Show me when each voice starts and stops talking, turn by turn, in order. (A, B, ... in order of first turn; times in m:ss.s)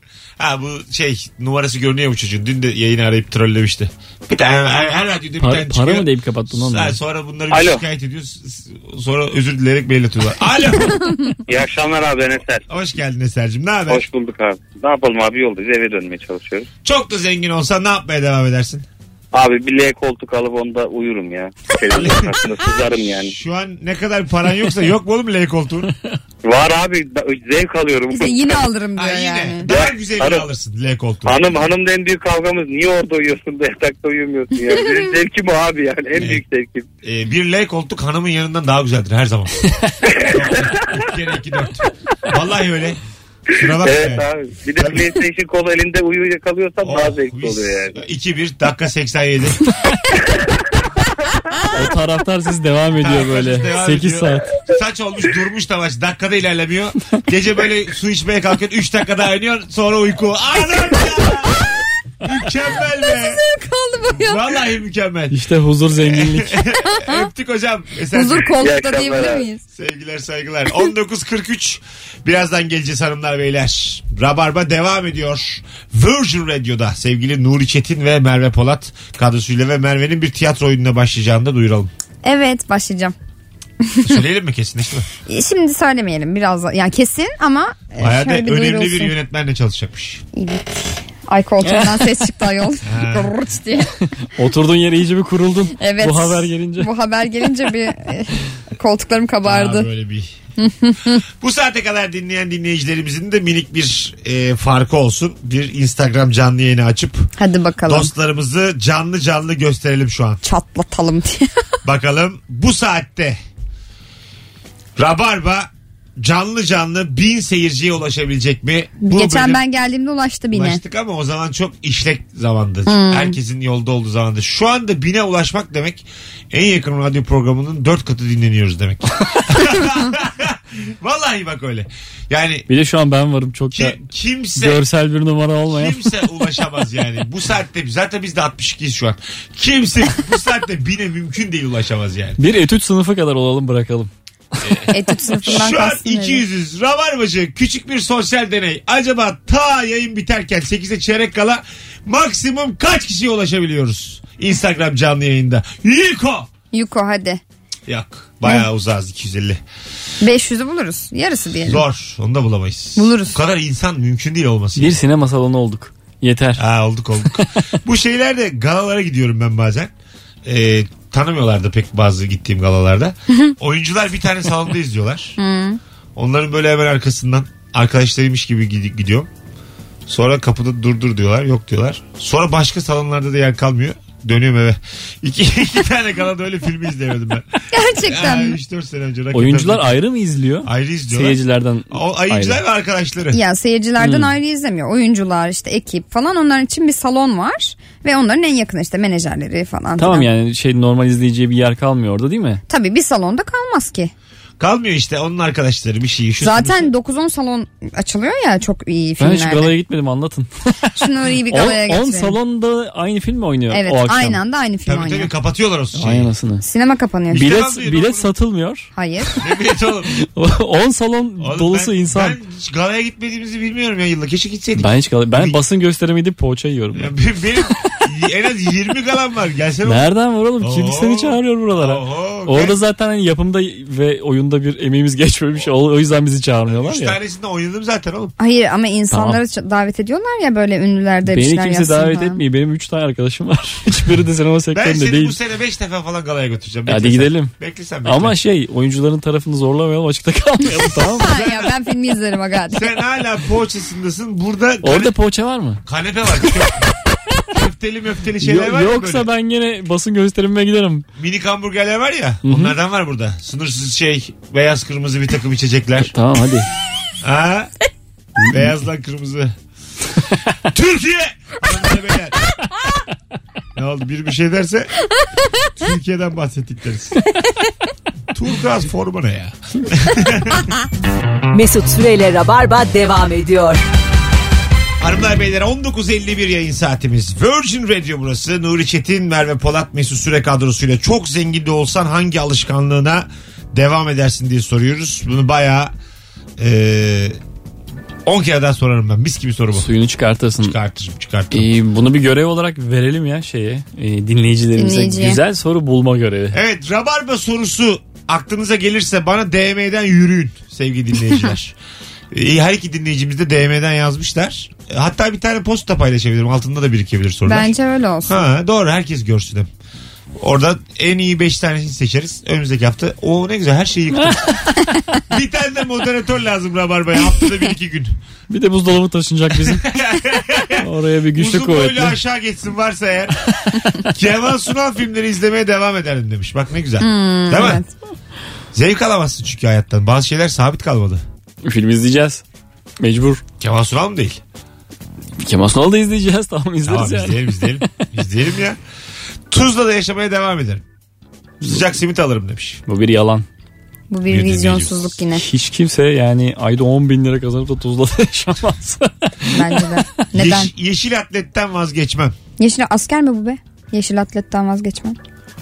0:00.4-0:11.1 A
0:05.4-0:07.0 B
0:07.5-0:07.8 C
0:11.5-0:12.6 C
0:12.7-0:14.0 A
0:13.9-0:16.7 C
0:16.8-0:18.8 A
0:19.3-0:23.3 C
0:21.9-0:22.4 A
0:23.1-0:25.9 A
0:26.4-0:28.6 C
0:28.1-0:29.7 D
0:29.0-0:31.5 A
0:29.6-0:30.4 C
0:31.2-0:36.9 C
0:36.2-0:36.4 A
0:37.0-0:39.6 A
0:40.1-0:40.6 C
0:40.2-0:43.0 A
0:43.5-0:45.1 A
0:43.6-0:48.0 C
0:46.8-0:49.6 A
0:51.7-0:54.5 B
0:53.0-1:01.7 A
1:02.2-1:03.4 A
1:03.0-1:04.6 D
1:04.1-1:05.4 A
1:05.3-1:06.6 B
1:06.0-1:08.6 A
1:06.8-1:07.3 D
1:08.1-1:09.6 D
1:08.6-1:09.4 C
1:09.7-1:21.9 A
1:22.2-1:23.1 D
1:23.8-1:24.2 D
1:24.0-1:25.1 A
1:25.3-1:29.1 D
1:28.0-1:30.2 A
1:30.3-1:33.9 D
1:31.6-1:32.1 B
1:32.8-1:33.3 A
1:34.4-1:36.9 B
1:35.8-1:39.9 D
1:39.4-1:40.3 A
1:40.6-1:41.2 D
1:41.4-1:47.3 A
1:47.4-1:48.1 D
1:47.8-1:50.4 A
1:50.4-1:51.5 D
1:51.8-1:53.4 A
1:55.0-1:59.6 A
1:59.0-2:00.8 D
2:00.5-2:12.7 A
2:02.9-2:03.4 D
2:12.7-2:14.0 B
2:13.7-2:14.8 A
2:14.5-2:16.1 B
2:15.7-2:22.4 A
2:22.4-2:24.7 B
2:24.6-2:36.5 A
2:24.9-2:26.4 D
2:36.7-2:37.4 D
2:37.9-2:39.6 A
2:40.2-2:41.8 D
2:41.6-2:45.0 A
2:43.0-2:43.4 D
2:44.8-2:46.6 B
2:46.6-2:49.9 A
2:50.4-2:55.4 A
2:55.4-2:55.8 D
2:56.2-2:59.3 A
3:00.1-3:07.4 A
3:07.7-3:08.6 D
3:08.0-3:10.0 A
3:09.3-3:12.6 B
3:10.6-3:11.4 A
3:11.9-3:13.4 A
3:13.3-3:20.3 D
3:14.0-3:14.3 B
3:20.0-3:22.6 B
3:22.7-3:24.1 D
3:24.6-3:26.9 A
3:26.4-3:29.7 D
3:29.2-3:34.4 B
3:31.0-3:32.4 D
3:33.7-3:35.3 D
3:34.8-3:36.3 A
3:35.9-3:36.6 B
3:36.6-3:37.5 D
3:37.3-3:38.3 A
3:37.3-3:38.9 B
3:38.9-3:39.4 D
3:39.4-3:40.2 A
3:40.1-3:42.4 B
3:41.4-3:45.6 A
3:44.8-3:47.1 B
3:46.9-3:50.1 A
3:49.8-3:57.2 B
3:50.6-3:52.8 A
3:56.7-3:58.3 A
3:58.4-4:02.4 D
3:59.1-3:59.4 B
4:01.2-4:05.4 B
4:04.7-4:08.4 A
4:06.9-4:11.3 B
4:10.9-4:12.9 D
4:11.3-4:11.6 A
4:12.7-4:15.1 A
4:14.8-4:15.8 B
4:15.8-4:16.9 A
4:17.4-4:19.3 A
4:18.4-4:21.0 B
4:21.2-4:26.1 A
4:22.4-4:22.7 B
4:26.1-4:26.7 B
4:27.2-4:27.7 A
4:28.4-4:29.5 A
4:30.6-4:32.4 A
4:33.7-4:34.9 A
4:35.8-4:37.2 A
4:38.3-4:40.7 A
4:41.5-4:43.8 E
4:45.0-4:55.9 A
4:56.6-4:57.4 A
4:58.2-4:59.9 A
4:59.7-5:00.8 B
5:00.6-5:01.7 A
5:01.5-5:06.6 B
5:04.8-5:05.4 D
5:06.5-5:11.7 A
5:12.3-5:17.7 A
5:17.4-5:18.5 D
5:18.3-5:19.7 A
5:20.4-5:24.6 A
5:25.3-5:28.2 A
5:28.5-5:29.9 B
5:29.6-5:33.4 A
5:30.8-5:32.2 B
5:33.7-5:33.9 B
5:34.0-5:37.8 A
5:37.0-5:37.9 D
5:38.7-5:41.2 A
5:41.6-5:42.4 B
5:43.0-5:43.4 B
5:43.6-5:44.4 A
5:45.4-5:47.8 B
5:46.8-5:48.8 A
5:49.5-5:50.8 A
5:51.6-5:52.8 A
5:52.9-5:53.4 B
5:54.1-5:55.4 D
5:54.3-5:55.1 A
5:55.3-6:00.0 B
5:59.5-6:00.7 D
6:00.3-6:02.3 A
6:02.6-6:05.2 D